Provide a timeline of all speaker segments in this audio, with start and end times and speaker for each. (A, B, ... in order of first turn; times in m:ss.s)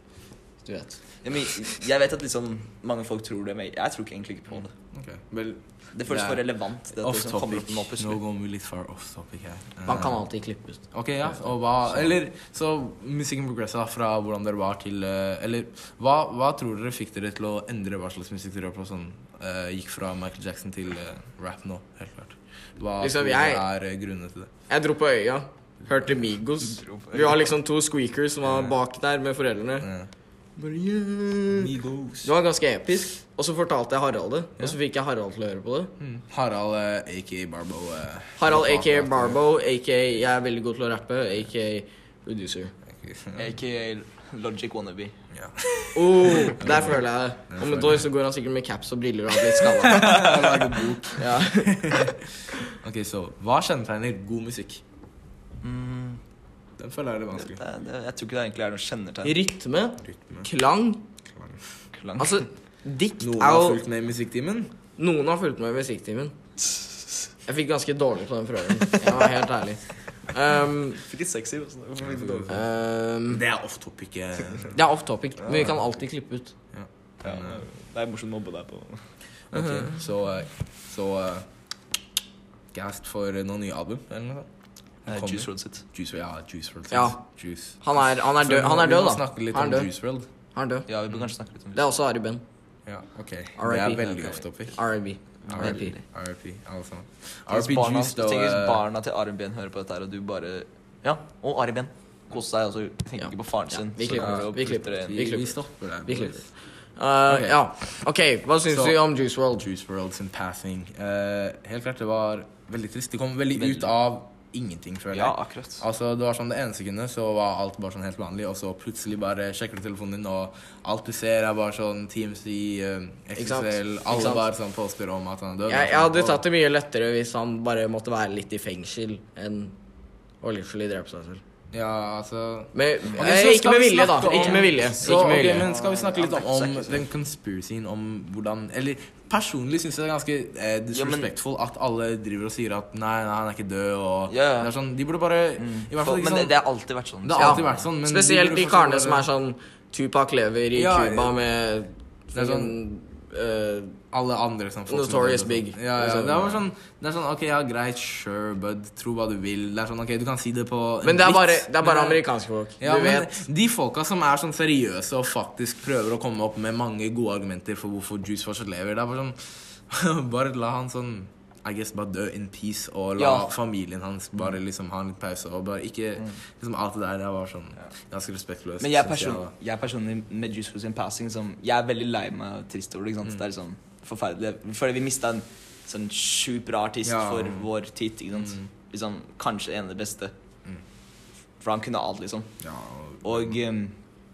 0:00.6-0:01.0 A
0:01.2-0:04.7 B
0:04.9-0:10.2 C
0:05.9-0:08.2 B
0:09.8-0:10.8 A
0:10.9-0:24.5 C
0:23.0-0:23.6 A
0:24.7-0:29.9 A
0:26.7-0:27.4 B
0:28.4-0:28.7 C
0:29.8-0:30.1 C
0:30.6-0:31.7 A
0:31.6-0:32.3 C
0:32.2-0:35.9 A
0:36.0-0:39.4 C
0:38.4-0:42.7 A
0:42.9-0:43.5 C
0:43.4-0:45.1 B
0:45.3-0:48.0 C
0:45.9-0:50.6 A
0:49.5-0:52.2 C
0:50.1-0:50.5 B
0:51.1-0:52.1 A
0:52.7-0:54.8 C
0:55.6-0:56.2 B
0:56.8-0:57.6 C
0:57.4-0:59.4 B
0:59.2-1:01.0 A
1:00.0-1:00.5 C
1:01.3-1:01.6 C
1:01.9-1:02.3 B
1:02.2-1:03.8 A
1:03.2-1:04.7 C
1:05.0-1:06.3 A
1:07.4-1:11.0 A
1:11.0-1:12.6 B
1:12.0-1:12.6 C
1:12.5-1:13.4 A
1:13.3-1:14.8 C
1:14.7-1:16.5 A
1:15.5-1:15.7 C
1:16.7-1:17.7 C
1:17.2-1:19.0 B
1:19.5-1:21.4 C
1:22.7-1:24.5 C
1:25.0-1:25.8 B
1:25.0-1:30.3 C
1:26.9-1:27.2 A
1:27.8-1:29.9 A
1:30.5-1:30.9 A
1:30.9-1:31.8 B
1:31.7-1:32.4 A
1:32.8-1:34.8 C
1:33.6-1:35.9 A
1:35.5-1:36.0 B
1:35.5-1:38.8 C
1:37.5-1:45.2 B
1:43.2-1:49.6 A
1:44.0-1:46.5 C
1:47.3-1:47.6 C
1:48.7-1:49.0 C
1:49.5-2:06.4 C
1:53.5-1:53.9 B
1:55.1-1:55.8 B
2:03.4-2:04.5 A
2:05.7-2:09.7 A
2:10.4-2:11.4 A
2:11.7-2:26.6 C
2:12.7-2:15.7 A
2:14.2-2:17.1 B
2:20.9-2:21.3 B
2:24.3-2:24.7 B
2:25.6-2:27.8 B
2:27.2-2:29.2 C
2:27.4-2:34.0 A
2:30.7-2:31.4 C
2:32.3-2:32.8 C
2:34.1-2:42.2 C
2:34.9-2:36.4 A
2:41.0-2:43.3 A
2:42.8-2:59.5 C
2:53.2-2:53.5 B
2:58.8-3:10.3 B
3:07.0-3:07.7 C
3:08.3-3:08.7 C
3:11.6-3:12.5 B
3:12.6-3:13.6 C
3:13.2-3:14.0 B